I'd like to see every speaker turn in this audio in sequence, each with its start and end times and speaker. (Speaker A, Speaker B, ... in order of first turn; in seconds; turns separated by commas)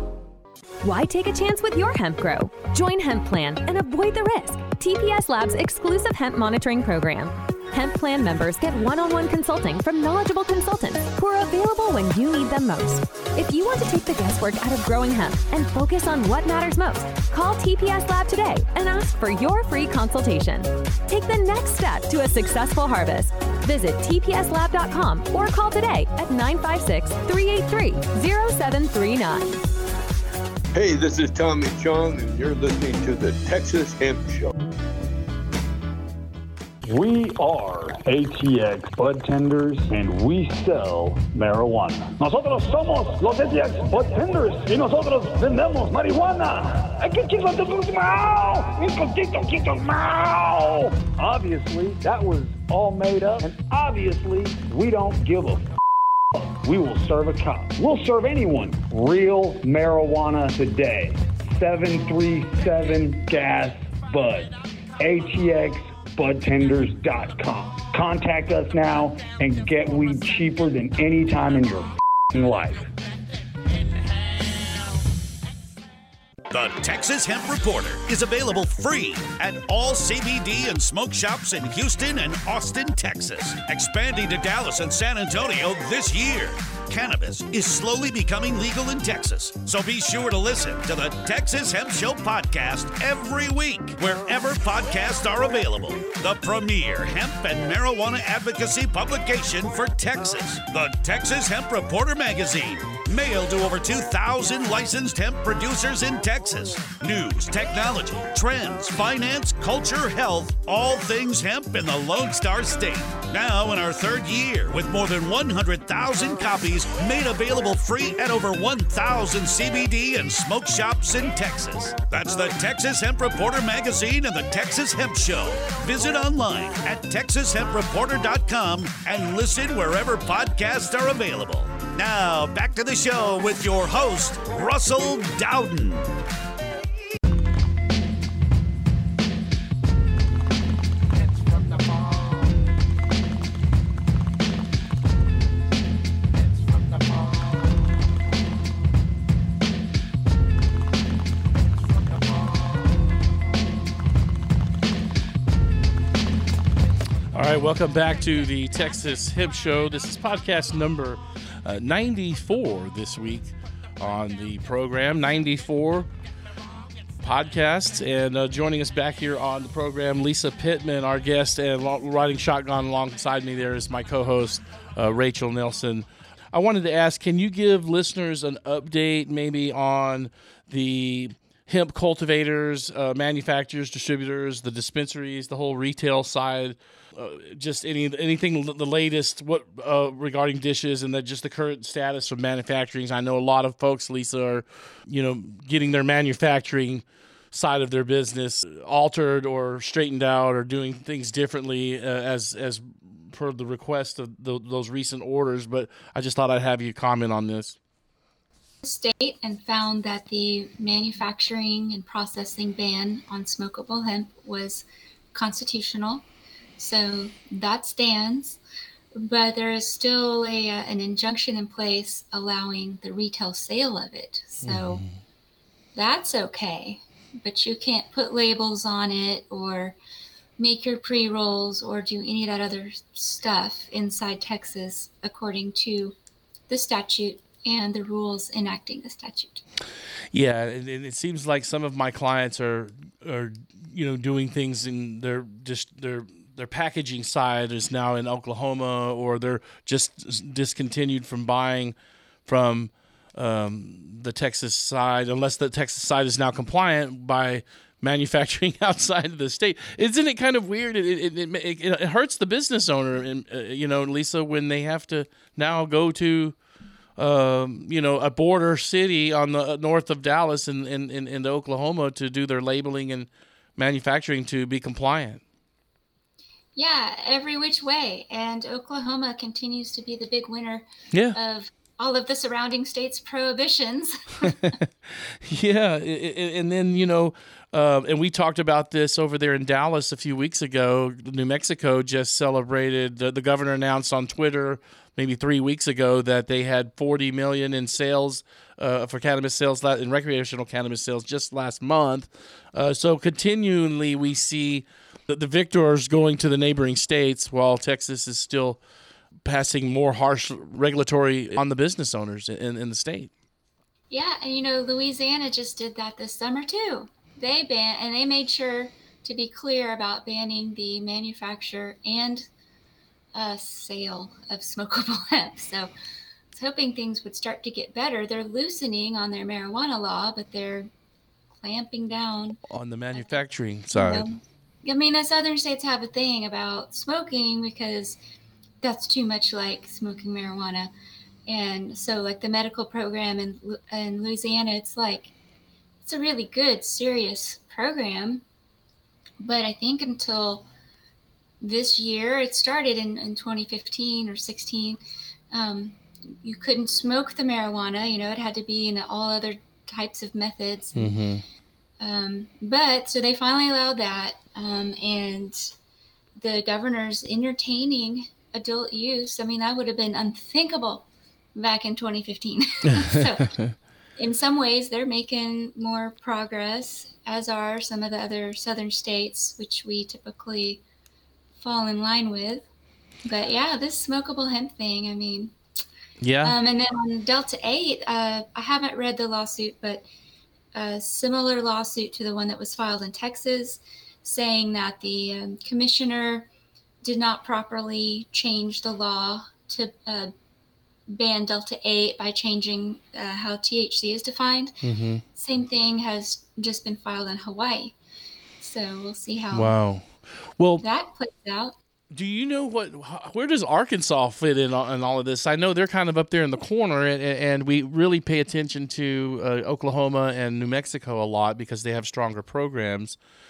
Speaker A: 0.8-29.6, Speaker B: 30.8-34.5, Speaker C: 36.8-55.7, Speaker C: 56.3-72.9, Speaker D: 76.5-136.1, Speaker E: 157.3-166.1, Speaker E: 167.2-207.8, Speaker F: 208.8-216.2, Speaker F: 216.8-218.6, Speaker F: 219.2-225.0, Speaker E: 224.6-225.1, Speaker F: 225.9-230.0, Speaker F: 230.6-236.2, Speaker F: 236.7-239.6, Speaker E: 240.3-251.9, Speaker E: 252.5-266.6, Speaker E: 267.2-275.4, Speaker F: 276.8-284.6, Speaker E: 285.1-308.8, Speaker E: 309.4-313.3, Speaker F: 314.1-322.5, Speaker F: 323.4-325.9, Speaker F: 326.5-330.9, Speaker F: 331.5-332.6, Speaker E: 332.7-334.3, Speaker F: 333.9-338.2, Speaker F: 338.8-340.9, Speaker F: 341.5-345.3, Speaker F: 346.0-348.4, Speaker F: 349.4-350.7, Speaker F: 351.6-355.0, Speaker F: 355.5-361.1, Speaker E: 360.9-361.4, Speaker F: 362.0-365.7, Speaker F: 366.4-373.6, Speaker F: 374.2-380.8, Speaker F: 381.6-382.6, Speaker F: 383.2-385.6, Speaker E: 386.2-386.6, Speaker F: 386.4-390.1, Speaker F: 390.8-396.5, Speaker F: 397.0-400.3, Speaker F: 401.1-404.8, Speaker E: 404.8-405.2, Speaker F: 405.3-407.9, Speaker F: 408.6-409.7, Speaker E: 409.5-410.8, Speaker F: 410.8-411.8, Speaker E: 412.1-423.2